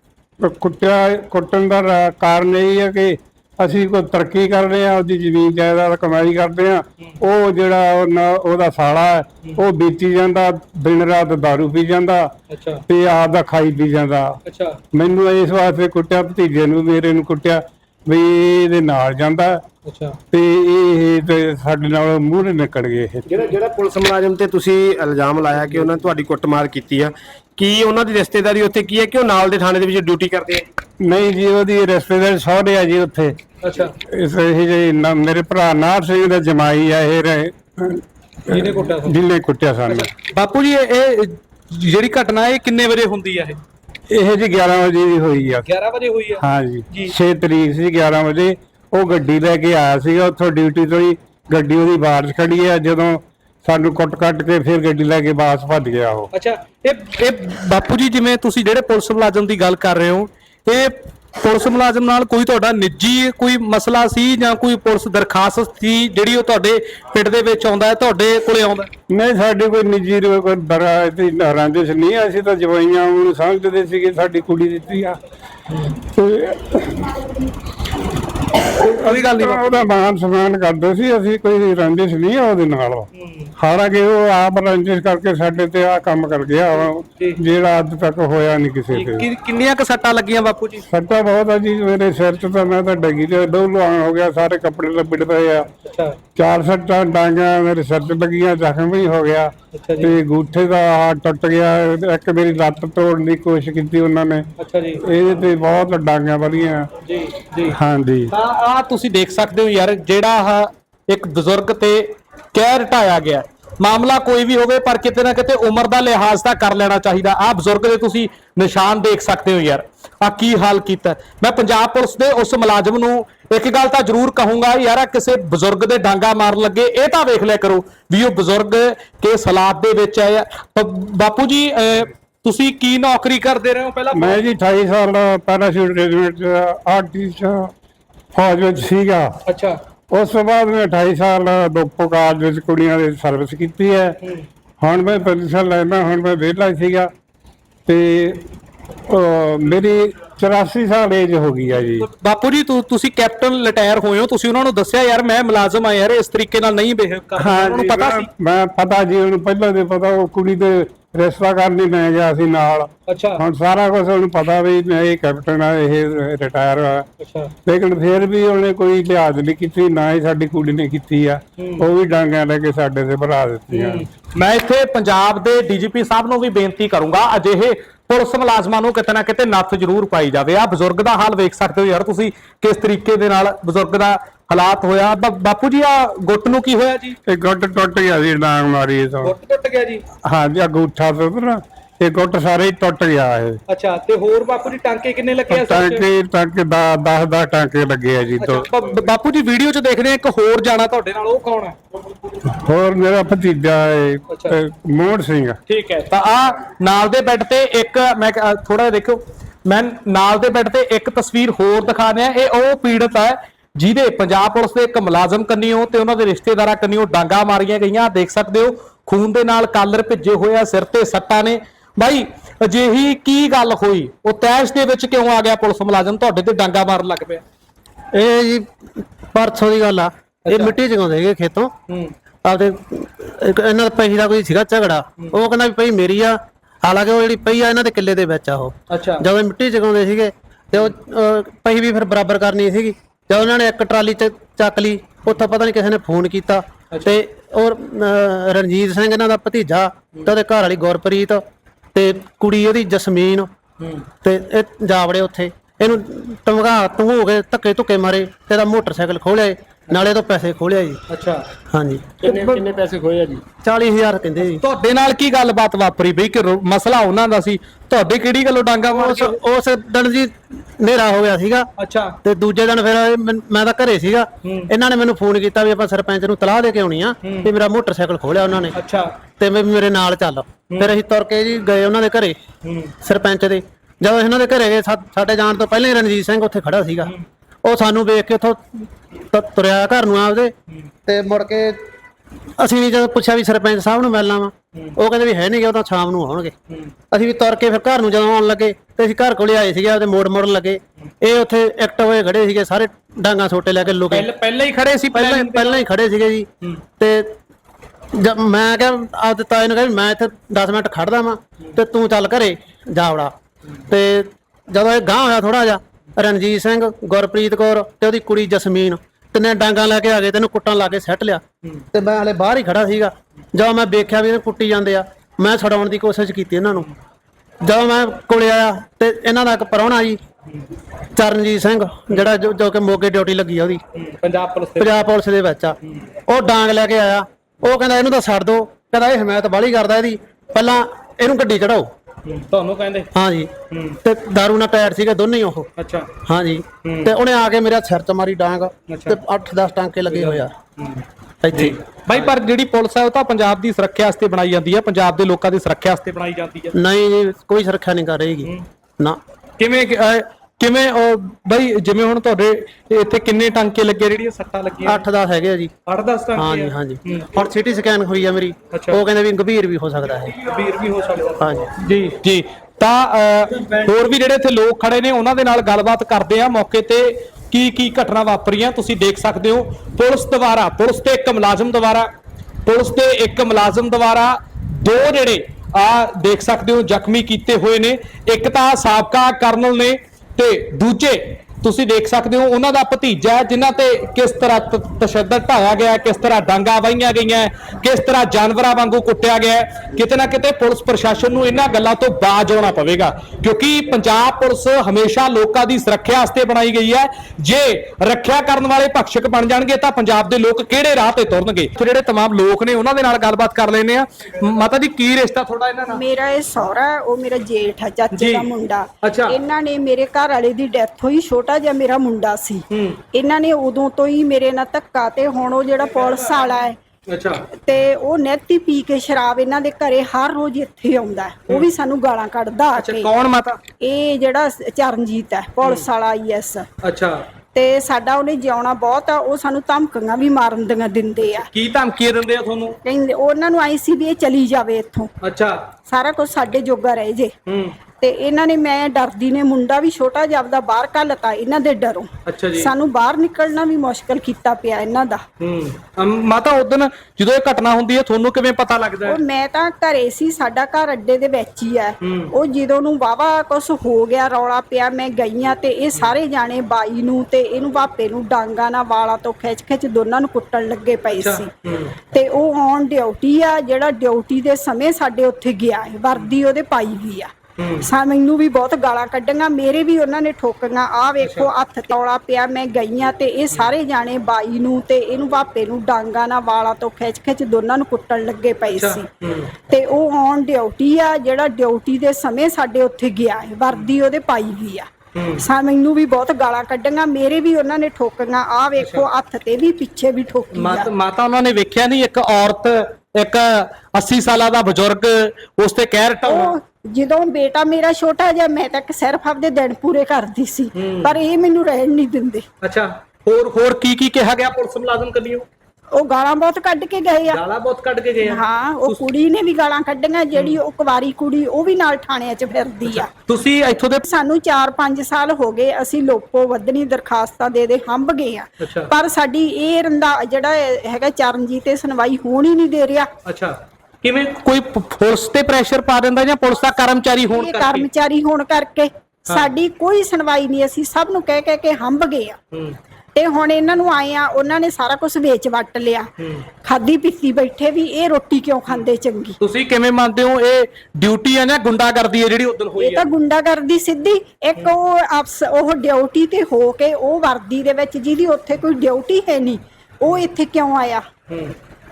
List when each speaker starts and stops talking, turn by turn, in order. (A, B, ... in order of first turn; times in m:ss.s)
0:00.4-0:12.3 A
0:12.5-0:12.8 B
0:12.9-0:14.4 A
0:14.4-0:14.8 B
0:14.9-0:19.6 A
0:19.8-0:20.2 B
0:20.3-0:23.5 A
0:23.9-0:24.7 C
0:25.6-0:26.7 C
0:28.1-0:30.5 C
0:31.0-0:33.4 A
0:33.6-0:33.9 B
0:34.1-0:40.1 A
0:38.5-0:39.1 B
0:39.9-0:43.6 B
0:44.1-0:45.7 A
0:45.6-0:47.1 B
0:46.4-0:56.3 A
0:56.3-1:08.9 B
1:09.1-1:15.2 A
1:16.0-1:17.2 A
1:18.8-1:23.1 A
1:18.9-1:19.8 B
1:23.6-1:29.3 A
1:28.9-1:30.8 B
1:30.9-1:35.7 A
1:35.8-1:36.2 B
1:36.4-1:44.5 A
1:39.7-1:40.1 B
1:44.6-1:45.0 B
1:45.0-1:46.9 A
1:47.0-1:47.7 B
1:47.7-1:48.3 A
1:48.3-2:14.4 B
2:14.1-2:17.7 A
2:18.3-2:19.3 A
2:19.5-2:19.8 B
2:20.1-2:24.2 A
2:24.8-2:27.1 A
2:27.8-2:28.4 A
2:29.1-2:32.0 A
2:31.9-2:38.3 B
2:37.4-2:47.0 A
2:43.1-2:43.4 B
2:47.2-2:47.5 B
2:47.6-2:54.0 A
2:51.6-2:51.8 B
2:53.7-3:07.2 B
3:07.3-3:09.3 A
3:09.2-3:10.0 B
3:10.3-3:13.6 A
3:13.7-3:16.0 B
3:15.5-3:18.6 A
3:18.4-3:21.8 B
3:22.5-3:25.6 A
3:24.3-3:24.5 B
3:25.7-3:47.4 B
3:48.1-3:48.7 D
3:49.3-3:51.7 D
3:50.5-3:50.7 B
3:52.4-4:11.4 D
3:58.9-3:59.2 B
4:11.9-4:13.5 D
4:14.2-4:21.0 D
4:21.1-4:21.4 B
4:21.7-4:22.7 D
4:22.5-4:23.4 C
4:23.6-4:24.6 D
4:24.5-4:29.4 B
4:28.9-4:31.7 D
4:31.8-4:32.1 B
4:32.2-4:38.8 D
4:34.4-4:34.7 B
4:38.7-4:39.1 B
4:39.4-4:42.4 D
4:42.6-4:42.9 B
4:43.0-4:47.1 D
4:47.6-4:50.5 D
4:51.1-4:51.8 D
4:52.6-4:56.5 D
4:57.1-5:04.3 D
5:04.1-5:05.8 B
5:05.1-5:07.3 D
5:08.1-5:13.3 D
5:13.9-5:21.4 D
5:21.9-5:26.9 D
5:27.6-5:30.2 D
5:31.1-5:33.8 D
5:33.9-5:35.0 B
5:34.8-5:35.8 D
5:36.3-5:41.9 D
5:42.2-5:43.1 B
5:43.1-5:43.5 D
5:43.7-5:44.0 B
5:44.0-5:45.7 D
5:45.8-5:46.1 B
5:46.2-5:50.5 D
5:46.8-5:47.1 B
5:48.9-5:49.2 B
5:50.1-5:51.0 B
5:51.4-5:51.8 D
5:51.5-5:56.7 B
5:56.7-5:59.2 D
5:59.6-6:05.0 B
6:04.8-6:05.7 D
6:05.9-6:07.3 B
6:06.4-6:10.4 D
6:08.7-6:09.0 B
6:10.4-6:22.1 B
6:11.4-6:11.7 D
6:22.6-6:56.0 B
6:55.9-7:06.8 E
6:58.1-6:58.5 B
6:59.0-6:59.4 B
7:02.7-7:03.0 B
7:05.8-7:07.5 B
7:07.6-7:13.1 E
7:12.8-7:13.6 B
7:13.8-7:16.7 E
7:15.6-7:15.8 B
7:16.8-7:17.2 B
7:17.5-7:21.5 E
7:21.3-7:22.8 B
7:22.8-7:25.1 E
7:25.2-7:25.6 B
7:25.8-7:27.3 E
7:27.5-7:27.8 B
7:28.0-7:35.2 E
7:32.2-7:32.7 B
7:35.4-7:39.2 B
7:39.0-7:51.5 E
7:42.0-7:42.3 B
7:51.2-7:51.9 B
7:52.1-8:09.1 E
7:57.6-7:57.8 B
8:01.2-8:01.5 B
8:08.7-8:09.5 B
8:09.7-8:20.9 E
8:15.2-8:15.4 B
8:18.8-8:19.1 B
8:20.5-8:26.6 B
8:26.2-8:32.4 E
8:30.7-8:31.1 B
8:32.6-8:35.5 B
8:35.9-8:37.4 E
8:37.3-8:39.1 B
8:38.2-8:43.1 E
8:42.8-8:44.1 B
8:44.1-8:53.1 E
8:48.6-8:48.9 B
8:53.2-8:57.9 B
8:57.3-9:02.4 E
9:03.1-9:06.1 E
9:06.6-9:09.4 E
9:09.4-9:13.1 B
9:12.8-9:21.0 E